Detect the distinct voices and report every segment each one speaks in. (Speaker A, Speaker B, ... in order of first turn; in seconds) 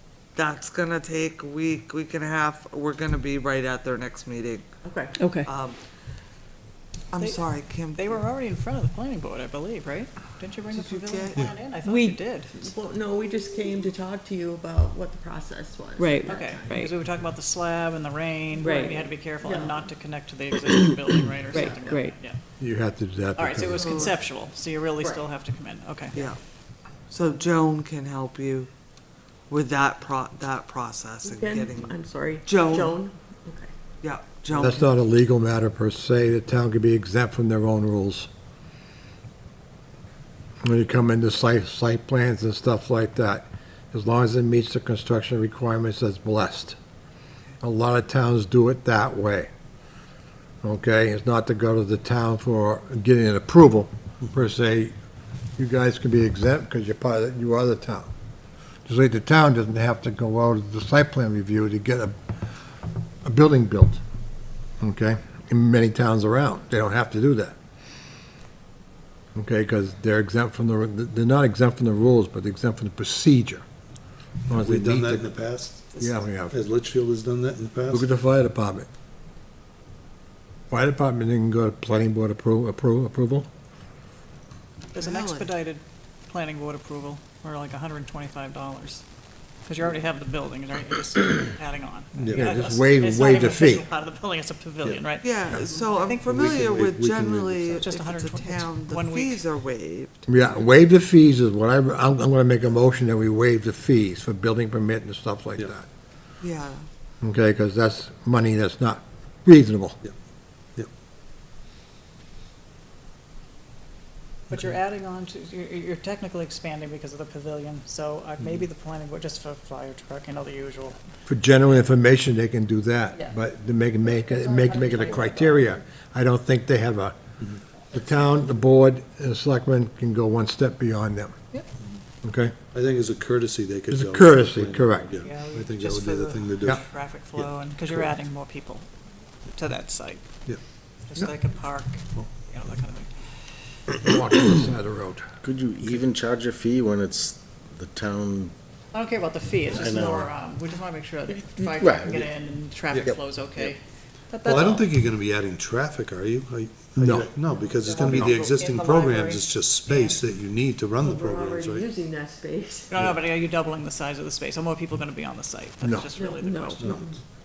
Speaker A: 0.3-4.7, 5.5-5.8, 7.1-8.2, 10.7-11.5, 23.8-24.1, 27.1-28.7, 29.5-33.0, 34.0-34.9, 84.9-85.5, 95.2-100.2, 106.4-106.8
Speaker B: 4.8-5.2, 12.5-16.8, 18.6-19.8, 31.2-33.7, 124.6-125.4, 161.0-162.9, 166.2-167.2
Speaker C: 5.2-5.5, 11.8-12.2, 16.0-16.8, 21.6-22.1
Speaker D: 7.2-12.7, 16.3-22.4, 23.4-26.3, 84.9-89.0, 89.7-96.5, 97.7-99.4, 114.5-121.0, 135.2-138.9, 139.5-140.2, 141.1-143.1, 148.9-153.8, 154.3-154.9, 157.8-160.2, 162.9-166.9
Speaker E: 22.6-24.0, 34.5-38.3, 40.6-46.8, 47.6-49.5, 50.6-54.9, 55.6-58.1, 58.9-62.1, 63.2-64.0, 64.8-67.5, 69.3-73.6, 74.5-75.3, 76.0-76.6, 77.9-78.9, 80.7-83.5, 92.3-93.8, 100.3-105.9, 107.2-110.0, 121.2-127.2, 127.9-131.4, 132.2-132.5, 133.9-135.1, 144.0-145.2, 157.0-157.3, 158.0-158.4
Speaker F: 74.5-78.1, 92.2-92.5, 96.3-97.7, 114.5-114.7, 132.7-138.1, 154.4-161.9, 166.8-167.1
Speaker G: 145.4-148.5, 149.7-150.3, 151.8-152.3, 153.0-153.7